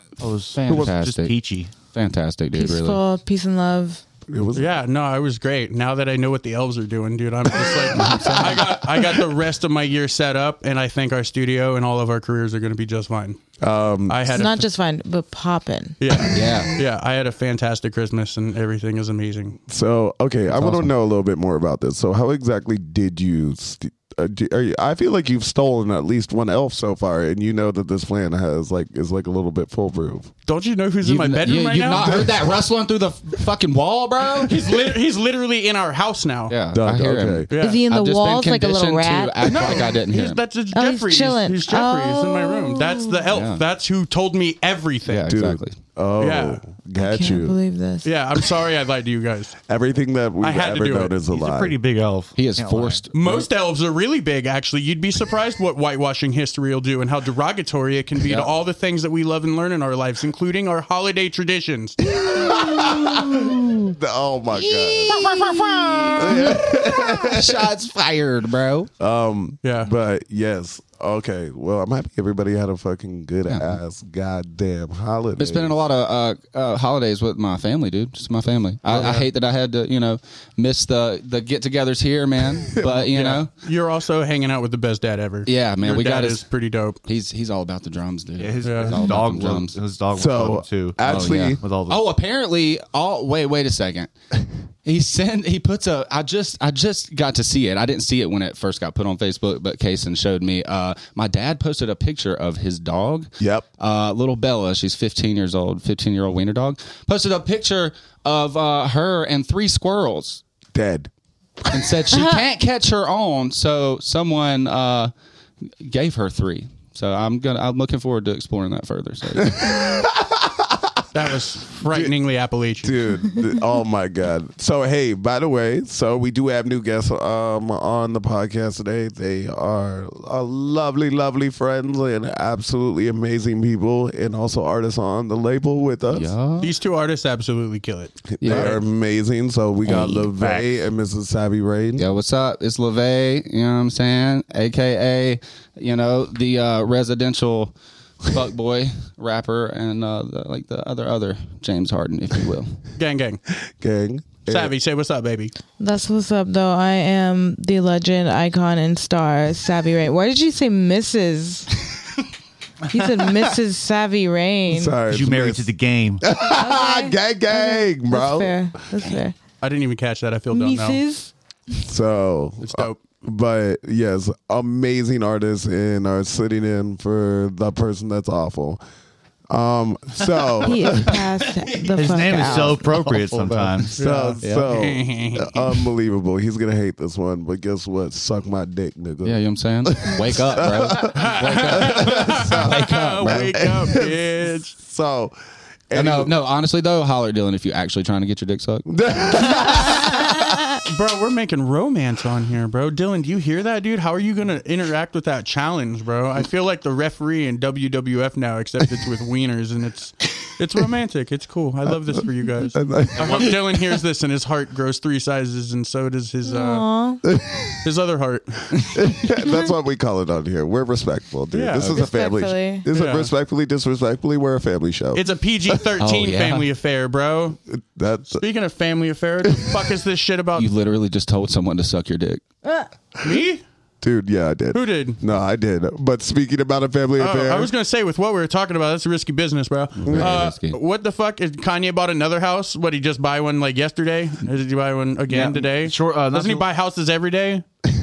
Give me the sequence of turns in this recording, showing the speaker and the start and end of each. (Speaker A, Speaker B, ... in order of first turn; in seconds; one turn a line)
Speaker A: 0.2-1.7
Speaker B: 0.5-1.4
Speaker B: 1.9-3.0
Speaker C: 2.5-4.0
Speaker D: 4.3-4.7
Speaker E: 4.5-13.4
Speaker D: 7.7-9.0
Speaker B: 8.1-8.4
Speaker D: 13.6-14.3
Speaker E: 14.1-14.6
Speaker C: 14.3-16.0
Speaker E: 16.0-19.6
Speaker B: 16.3-16.7
Speaker D: 19.7-30.3
Speaker B: 20.5-20.9
Speaker E: 30.5-32.4
Speaker B: 31.0-34.6
Speaker D: 32.0-32.3
Speaker E: 34.4-36.5
Speaker B: 36.5-40.4
Speaker D: 36.7-37.5
Speaker E: 37.5-37.8
Speaker C: 37.6-40.0
Speaker E: 39.5-45.3
Speaker C: 40.7-43.2
Speaker B: 43.3-43.6
Speaker B: 45.1-45.8
Speaker D: 45.3-47.6
Speaker E: 46.2-46.6
Speaker C: 47.0-48.1
Speaker E: 48.0-49.6
Speaker D: 49.7-51.8
Speaker E: 50.4-51.1
Speaker A: 51.3-53.0
Speaker B: 52.4-53.1
Speaker E: 53.1-62.0
Speaker B: 58.2-58.5
Speaker D: 62.1-65.3
Speaker C: 62.6-62.9
Speaker B: 63.1-63.4
Speaker B: 64.6-68.9
Speaker C: 65.8-66.1
Speaker D: 66.2-67.7
Speaker D: 69.0-75.8
Speaker E: 69.6-69.9
Speaker B: 73.5-73.8
Speaker B: 75.4-83.5
Speaker E: 78.9-79.3
Speaker E: 82.9-87.0
Speaker B: 85.5-86.5
Speaker B: 87.1-89.8
Speaker A: 88.4-92.0
Speaker E: 88.7-89.0
Speaker D: 90.1-91.6
Speaker B: 91.0-94.1
Speaker B: 94.8-110.4
Speaker D: 103.4-103.7
Speaker D: 110.7-111.1
Speaker D: 111.6-111.9
Speaker B: 111.7-115.1
Speaker C: 112.1-112.4
Speaker B: 115.8-119.7
Speaker D: 119.4-121.0
Speaker E: 121.1-123.0
Speaker D: 121.9-122.1
Speaker D: 122.8-136.3
Speaker B: 136.1-136.7
Speaker E: 136.6-138.8
Speaker D: 138.4-142.1
Speaker B: 138.4-138.8
Speaker B: 139.8-140.3
Speaker B: 142.0-147.7
Speaker B: 148.3-152.8
Speaker E: 153.0-153.4
Speaker D: 153.7-154.7
Speaker E: 154.5-155.5
Speaker C: 155.8-161.9
Speaker C: 162.9-165.0
Speaker D: 164.7-165.7
Speaker A: 165.1-166.2
Speaker D: 166.2-168.6
Speaker C: 166.4-169.3
Speaker E: 169.6-171.0
Speaker C: 170.5-171.3
Speaker D: 171.8-178.8
Speaker E: 172.6-173.0
Speaker D: 179.5-181.2
Speaker C: 180.6-182.9
Speaker B: 181.7-183.6
Speaker A: 181.9-184.0
Speaker D: 183.9-195.3
Speaker E: 184.0-185.8
Speaker B: 189.2-193.6
Speaker E: 191.0-194.8
Speaker D: 195.9-196.3
Speaker B: 195.9-198.9
Speaker D: 198.9-200.4
Speaker E: 200.9-216.9
Speaker D: 212.2-214.0
Speaker A: 213.2-213.5
Speaker C: 216.5-217.2
Speaker D: 217.2-217.8
Speaker E: 217.8-218.9
Speaker D: 218.9-225.9
Speaker E: 221.5-221.9
Speaker C: 221.8-222.9
Speaker E: 222.9-223.3
Speaker E: 225.1-227.6
Speaker B: 226.0-226.7
Speaker D: 227.7-228.4
Speaker E: 228.3-230.7
Speaker D: 229.4-229.9
Speaker B: 230.6-232.4
Speaker E: 233.2-233.6
Speaker D: 234.0-237.7
Speaker E: 234.7-235.2
Speaker E: 237.2-247.7
Speaker B: 240.0-240.8
Speaker D: 240.1-240.4
Speaker A: 245.3-246.7